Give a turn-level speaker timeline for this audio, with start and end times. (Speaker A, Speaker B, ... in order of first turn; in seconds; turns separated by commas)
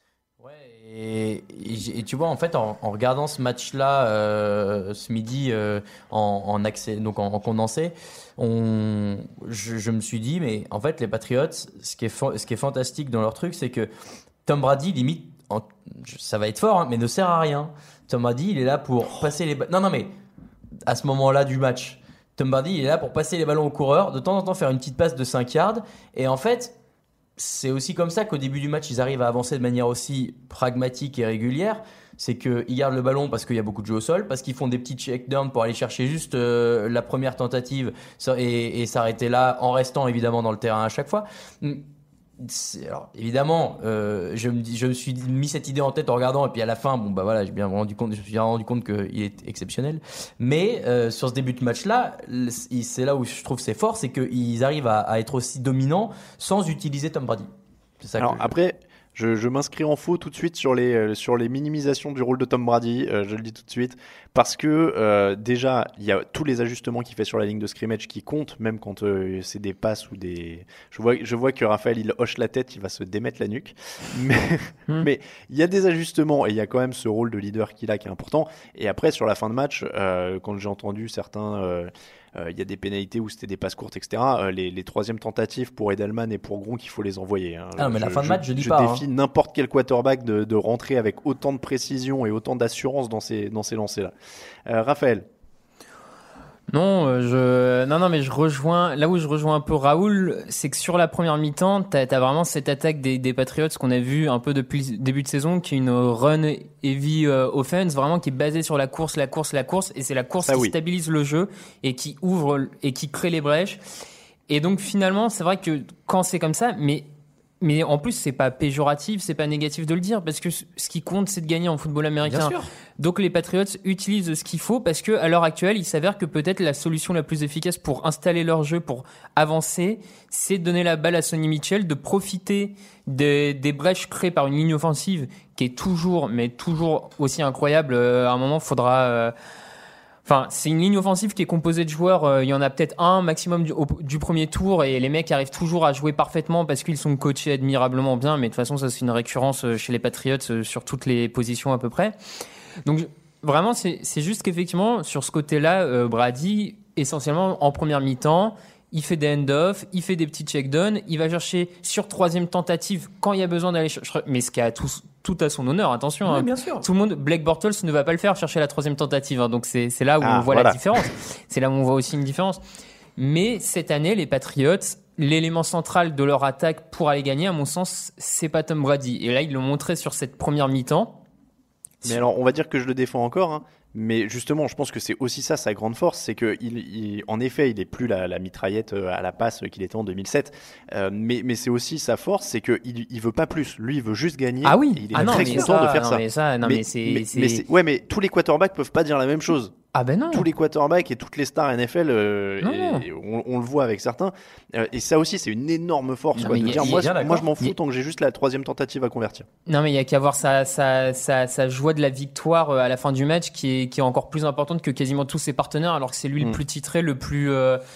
Speaker A: 0.4-13.9, Speaker A: 14.4-20.1, Speaker A: 20.8-26.8, Speaker A: 27.4-41.9, Speaker A: 42.4-58.5, Speaker B: 58.2-94.1, Speaker A: 87.8-89.0, Speaker B: 94.7-95.2, Speaker C: 96.7-113.8, Speaker B: 110.4-110.7, Speaker C: 114.5-117.1, Speaker C: 117.6-139.3, Speaker A: 122.2-122.7, Speaker C: 140.2-152.1, Speaker C: 152.8-172.6, Speaker A: 166.2-166.8, Speaker B: 170.2-171.0, Speaker C: 173.2-181.2, Speaker B: 182.0-199.7, Speaker C: 194.6-197.6, Speaker A: 195.1-195.7, Speaker C: 199.9-200.5, Speaker B: 200.3-209.4, Speaker C: 202.6-203.0, Speaker C: 206.4-207.0, Speaker A: 206.4-207.5, Speaker C: 209.7-217.8